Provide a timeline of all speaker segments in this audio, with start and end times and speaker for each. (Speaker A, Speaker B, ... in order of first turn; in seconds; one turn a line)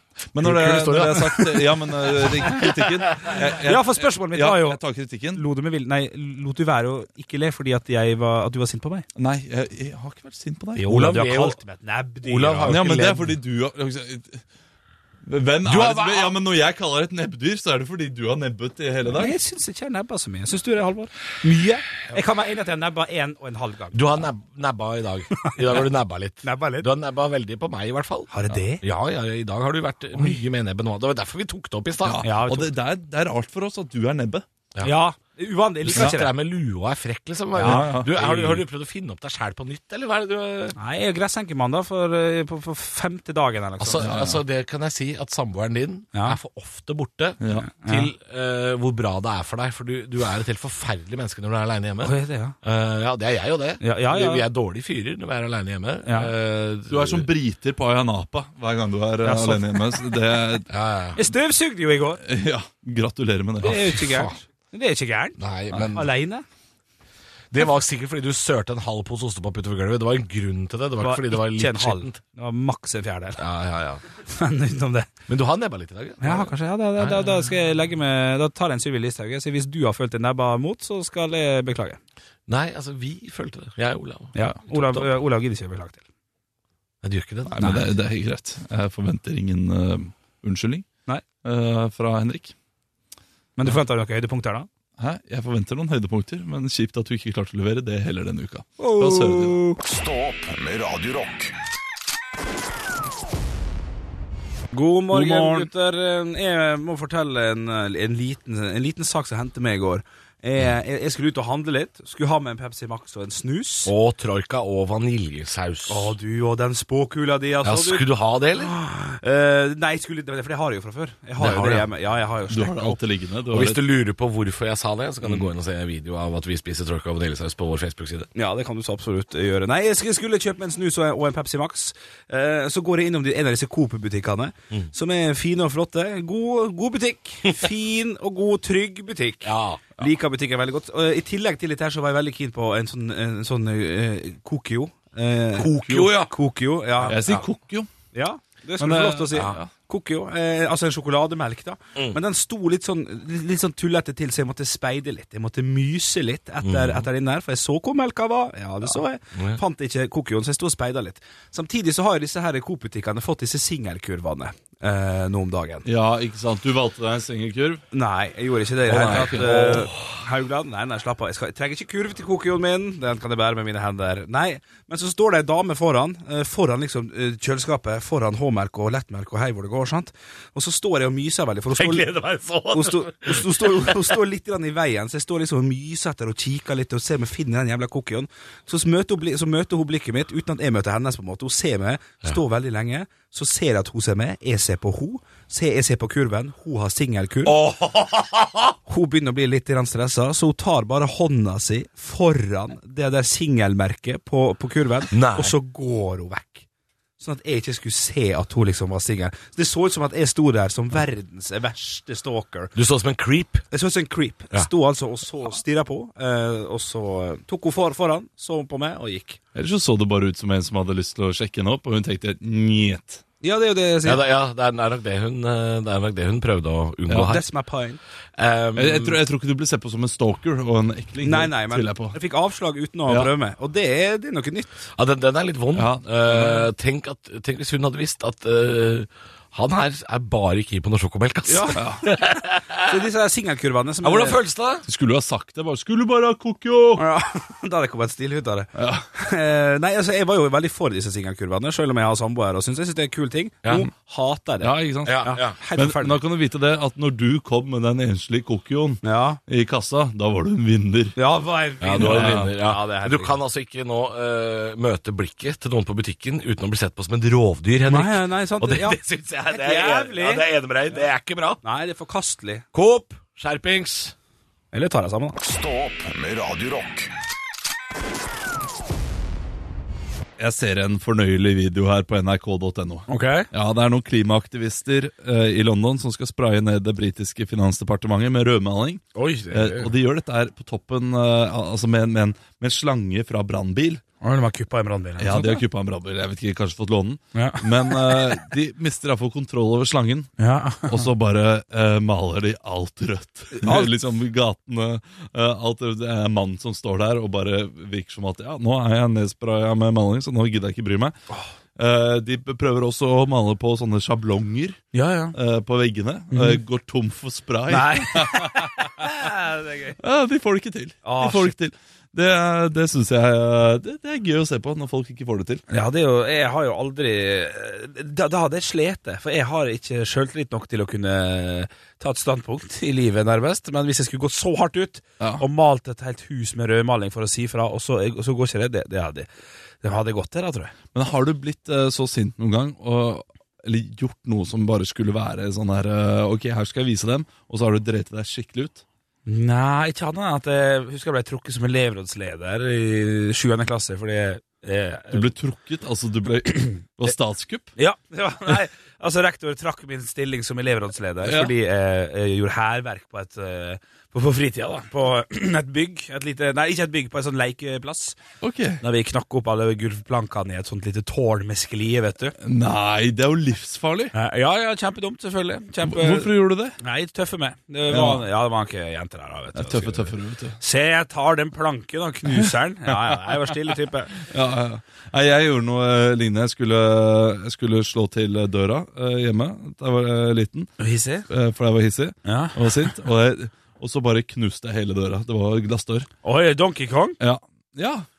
Speaker A: 0.3-5.4
Speaker B: 0.4-1.4
Speaker C: 3.6-4.8
Speaker C: 5.3-9.1
Speaker A: 9.2-11.1
Speaker C: 10.8-12.8
Speaker B: 10.8-11.6
Speaker B: 12.2-13.3
Speaker A: 12.7-14.4
Speaker A: 15.2-19.4
Speaker B: 15.7-16.4
Speaker C: 19.1-24.1
Speaker B: 23.9-32.2
Speaker C: 25.4-25.8
Speaker C: 26.4-26.9
Speaker C: 28.3-28.8
Speaker A: 32.0-34.5
Speaker C: 32.2-32.7
Speaker C: 34.8-36.3
Speaker B: 35.9-40.8
Speaker C: 37.6-37.9
Speaker A: 37.6-38.6
Speaker C: 40.8-44.1
Speaker B: 43.8-57.3
Speaker A: 44.0-44.4
Speaker C: 46.1-46.4
Speaker A: 47.4-47.7
Speaker C: 47.5-48.1
Speaker C: 52.0-52.5
Speaker C: 53.8-54.5
Speaker C: 56.0-56.3
Speaker A: 56.9-60.7
Speaker C: 59.2-60.0
Speaker B: 60.7-61.2
Speaker C: 61.2-62.2
Speaker A: 62.2-63.9
Speaker C: 63.6-65.4
Speaker B: 63.7-64.4
Speaker B: 65.4-66.1
Speaker C: 65.9-66.5
Speaker B: 67.5-72.2
Speaker C: 71.0-73.4
Speaker B: 73.4-74.0
Speaker C: 74.3-75.1
Speaker B: 75.3-77.5
Speaker C: 76.2-82.0
Speaker B: 82.5-85.1
Speaker C: 84.3-86.0
Speaker B: 87.0-87.9
Speaker A: 87.5-90.9
Speaker C: 87.6-87.9
Speaker A: 91.4-92.5
Speaker C: 93.6-94.7
Speaker A: 95.0-99.6
Speaker C: 98.8-99.8
Speaker D: 99.8-101.5
Speaker C: 104.7-113.9
Speaker A: 105.1-105.7
Speaker B: 113.8-116.2
Speaker C: 115.9-118.1
Speaker B: 117.6-118.7
Speaker C: 118.6-123.0
Speaker B: 121.4-121.8
Speaker A: 122.5-123.8
Speaker B: 123.5-128.3
Speaker C: 128.3-147.2
Speaker B: 139.4-139.9
Speaker B: 145.6-146.3
Speaker A: 145.9-146.1
Speaker B: 147.0-147.4
Speaker A: 147.1-147.9
Speaker C: 148.1-165.9
Speaker A: 148.8-149.7
Speaker B: 149.3-149.6
Speaker B: 156.6-157.1
Speaker B: 159.3-159.6
Speaker A: 165.8-167.8
Speaker C: 167.9-182.1
Speaker A: 168.9-169.9
Speaker B: 168.9-170.1
Speaker B: 181.7-184.2
Speaker C: 182.7-197.6
Speaker B: 197.4-198.8
Speaker C: 198.9-206.7
Speaker B: 205.1-205.5
Speaker C: 207.2-212.7
Speaker B: 212.8-213.7
Speaker C: 213.7-219.4
Speaker A: 219.6-223.2
Speaker C: 223.4-224.2
Speaker B: 224.0-227.4
Speaker A: 227.1-227.4
Speaker C: 227.2-228.0
Speaker B: 228.4-229.2
Speaker A: 228.8-232.2
Speaker C: 231.2-234.9
Speaker B: 234.9-242.9
Speaker A: 235.8-236.7
Speaker C: 241.5-242.1
Speaker A: 241.8-242.1
Speaker C: 242.8-244.4
Speaker B: 244.0-244.9
Speaker A: 244.9-247.0
Speaker C: 247.0-256.2
Speaker A: 248.8-249.1
Speaker B: 253.6-253.9
Speaker A: 254.6-261.2
Speaker B: 255.1-255.6
Speaker C: 259.0-259.4
Speaker C: 261.2-263.4
Speaker B: 261.8-271.6
Speaker A: 262.0-262.5
Speaker C: 267.9-270.5
Speaker C: 271.6-272.6
Speaker B: 272.7-274.1
Speaker C: 274.7-275.4
Speaker D: 275.4-277.1
Speaker A: 280.4-294.0
Speaker C: 283.1-283.5
Speaker B: 289.1-289.9
Speaker C: 294.2-295.6
Speaker A: 295.2-300.3
Speaker C: 297.4-298.2
Speaker C: 300.4-301.1
Speaker A: 300.8-311.2
Speaker C: 303.6-303.9
Speaker A: 311.8-314.8
Speaker C: 314.9-315.4
Speaker A: 315.3-319.3
Speaker C: 316.3-316.6
Speaker C: 317.7-320.0
Speaker A: 320.0-325.6
Speaker C: 321.0-321.5
Speaker C: 325.7-339.3
Speaker C: 339.8-340.7
Speaker A: 340.9-348.8
Speaker C: 349.3-355.3
Speaker A: 355.1-357.7
Speaker C: 357.8-368.2
Speaker A: 361.2-361.5
Speaker A: 368.4-368.8
Speaker C: 368.8-372.4
Speaker A: 372.4-374.1
Speaker C: 374.1-384.2
Speaker A: 375.8-376.8
Speaker A: 377.9-378.2
Speaker A: 379.6-380.6
Speaker A: 384.2-390.7
Speaker C: 390.8-391.3
Speaker A: 391.3-396.1
Speaker C: 392.2-392.9
Speaker C: 396.2-397.2
Speaker A: 397.2-398.1